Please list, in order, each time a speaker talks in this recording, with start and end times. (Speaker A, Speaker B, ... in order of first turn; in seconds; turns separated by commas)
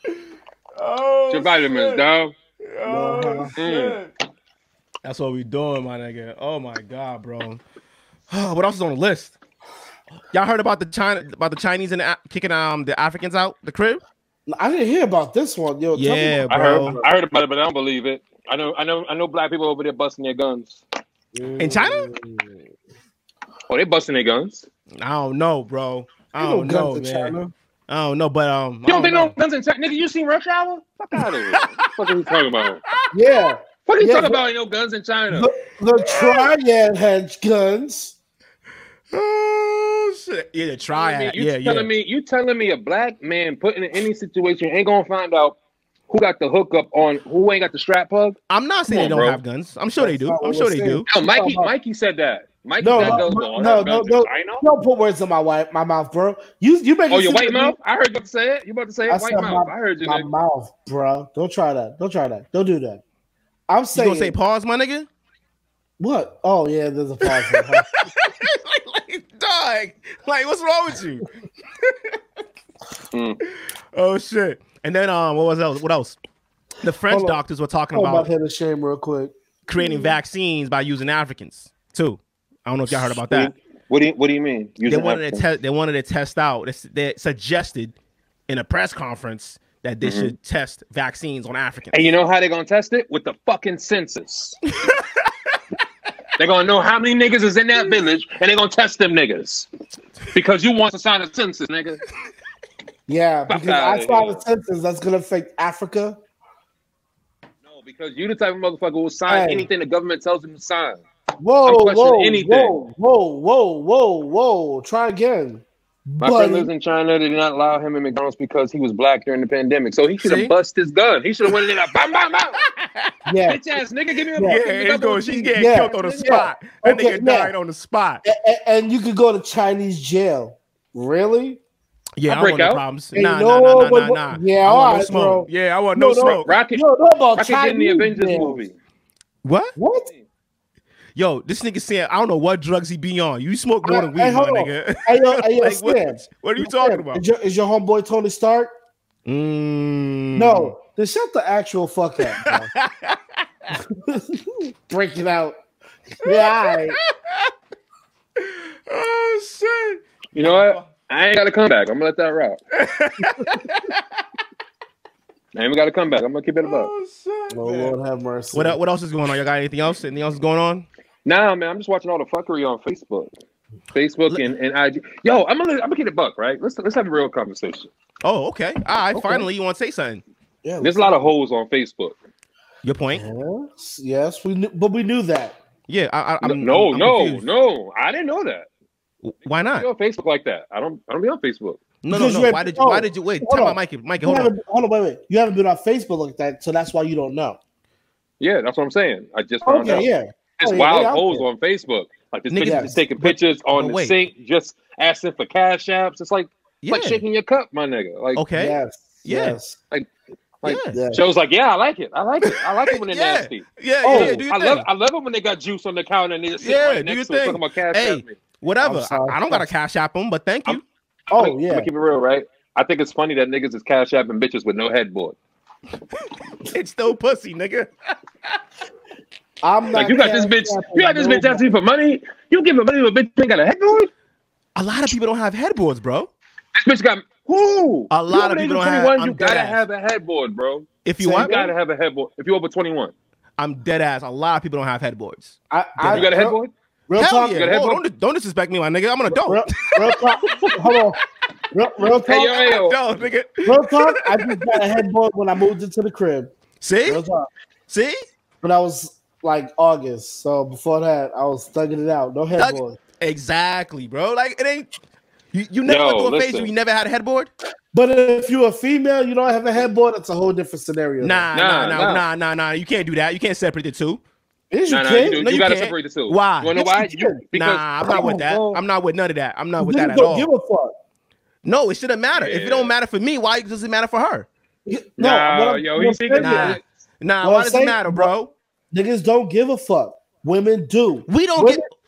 Speaker A: 0.8-2.0, Speaker B: 1.3-2.3, Speaker A: 2.6-4.1, Speaker C: 2.9-3.5, Speaker B: 3.6-4.0, Speaker A: 5.0-7.6, Speaker A: 8.3-9.4, Speaker A: 10.3-14.0, Speaker C: 14.5-17.1, Speaker A: 15.9-17.0, Speaker B: 16.5-20.8, Speaker C: 21.4-22.6, Speaker A: 21.6-22.1, Speaker B: 23.7-24.7, Speaker A: 25.0-27.4, Speaker C: 26.4-27.5, Speaker A: 27.9-29.3, Speaker B: 28.9-32.8, Speaker A: 31.1-31.7, Speaker C: 33.1-34.4, Speaker B: 33.9-35.5, Speaker C: 35.3-38.2, Speaker A: 36.0-36.5, Speaker A: 39.1-41.9, Speaker B: 40.9-45.6, Speaker B: 46.1-48.4, Speaker A: 48.5-51.1, Speaker B: 48.9-49.4, Speaker C: 50.0-51.7, Speaker B: 51.1-54.6, Speaker C: 52.8-57.8, Speaker A: 52.9-53.3, Speaker B: 57.1-60.3, Speaker C: 59.1-63.0, Speaker C: 63.7-64.3, Speaker A: 63.9-65.1, Speaker C: 66.0-67.9, Speaker A: 67.2-71.3, Speaker A: 71.8-72.2, Speaker B: 73.1-73.4, Speaker A: 73.9-76.2, Speaker A: 76.8-78.3, Speaker C: 77.1-77.4, Speaker C: 77.9-79.3, Speaker A: 79.7-83.5, Speaker B: 83.0-85.4, Speaker A: 84.9-88.0, Speaker A: 88.5-92.0, Speaker B: 90.0-90.3, Speaker B: 91.9-94.6, Speaker A: 94.8-95.3, Speaker B: 96.4-99.7, Speaker B: 100.3-102.0, Speaker C: 103.1-106.2, Speaker B: 103.5-104.4, Speaker B: 107.7-111.0, Speaker C: 109.3-109.7, Speaker C: 111.4-116.7, Speaker B: 111.7-112.8, Speaker B: 116.2-122.7, Speaker A: 120.2-120.5, Speaker A: 122.8-123.1, Speaker C: 123.3-123.6, Speaker B: 123.5-126.4, Speaker A: 124.4-128.2, Speaker C: 125.6-127.5, Speaker C: 128.2-131.6, Speaker A: 132.2-136.5, Speaker B: 132.3-132.8, Speaker C: 133.1-138.6, Speaker B: 136.2-136.8, Speaker B: 137.4-138.8, Speaker A: 139.4-139.8, Speaker C: 139.8-140.1, Speaker A: 141.2-147.2, Speaker C: 143.8-148.7, Speaker A: 149.3-150.7, Speaker C: 150.4-152.7, Speaker A: 152.3-153.2, Speaker C: 153.7-155.6, Speaker C: 156.2-157.0, Speaker A: 156.2-157.5, Speaker A: 158.4-160.9, Speaker B: 160.3-162.6, Speaker A: 162.8-164.0, Speaker B: 165.5-166.9, Speaker A: 166.6-168.0, Speaker C: 167.5-168.8, Speaker A: 168.5-170.9, Speaker B: 171.2-173.3, Speaker B: 173.9-177.9, Speaker A: 178.2-180.2, Speaker C: 179.1-179.5, Speaker C: 180.6-181.3, Speaker B: 180.8-182.2, Speaker A: 182.8-183.2, Speaker C: 183.1-185.6, Speaker A: 185.9-187.4, Speaker B: 186.4-188.7, Speaker A: 189.2-189.9, Speaker B: 189.7-191.8, Speaker A: 192.0-194.5, Speaker C: 192.1-197.6, Speaker B: 198.4-200.1, Speaker C: 199.7-201.5, Speaker B: 200.6-208.4, Speaker A: 202.5-204.2, Speaker C: 202.6-203.0, Speaker A: 206.8-207.2, Speaker A: 208.3-209.6, Speaker C: 208.6-209.8, Speaker B: 210.6-218.3, Speaker A: 210.6-211.0, Speaker C: 210.9-211.2, Speaker A: 212.5-214.9, Speaker C: 214.0-214.4, Speaker A: 216.6-220.8, Speaker C: 218.8-219.7, Speaker C: 221.3-221.9, Speaker B: 221.3-225.4, Speaker A: 226.7-227.9, Speaker C: 229.6-231.7, Speaker B: 229.9-234.1, Speaker A: 234.8-236.3, Speaker B: 236.8-243.1, Speaker A: 238.1-239.8, Speaker A: 241.1-241.5, Speaker C: 241.2-241.7, Speaker A: 243.6-246.3, Speaker C: 245.7-246.6, Speaker B: 246.1-246.7, Speaker C: 247.1-247.6, Speaker A: 247.2-250.8, Speaker B: 247.5-248.0, Speaker C: 249.3-251.2, Speaker C: 251.7-252.6, Speaker B: 252.1-253.0, Speaker A: 252.5-254.8, Speaker C: 253.7-256.5, Speaker A: 256.8-257.2, Speaker C: 257.1-257.5, Speaker A: 257.9-258.2, Speaker C: 258.6-263.0, Speaker A: 262.6-264.9, Speaker A: 265.5-267.5, Speaker B: 265.9-266.7, Speaker C: 267.9-271.5, Speaker A: 271.2-274.2, Speaker B: 271.5-272.2, Speaker C: 274.7-275.4, Speaker B: 274.9-278.6, Speaker A: 275.3-280.5, Speaker C: 276.8-277.4, Speaker C: 278.1-278.8, Speaker C: 279.8-280.9, Speaker A: 281.6-284.5, Speaker B: 282.4-282.9, Speaker C: 284.9-286.8, Speaker B: 285.2-286.8, Speaker A: 286.3-288.5, Speaker C: 287.4-288.3, Speaker C: 288.9-291.8, Speaker A: 291.3-291.9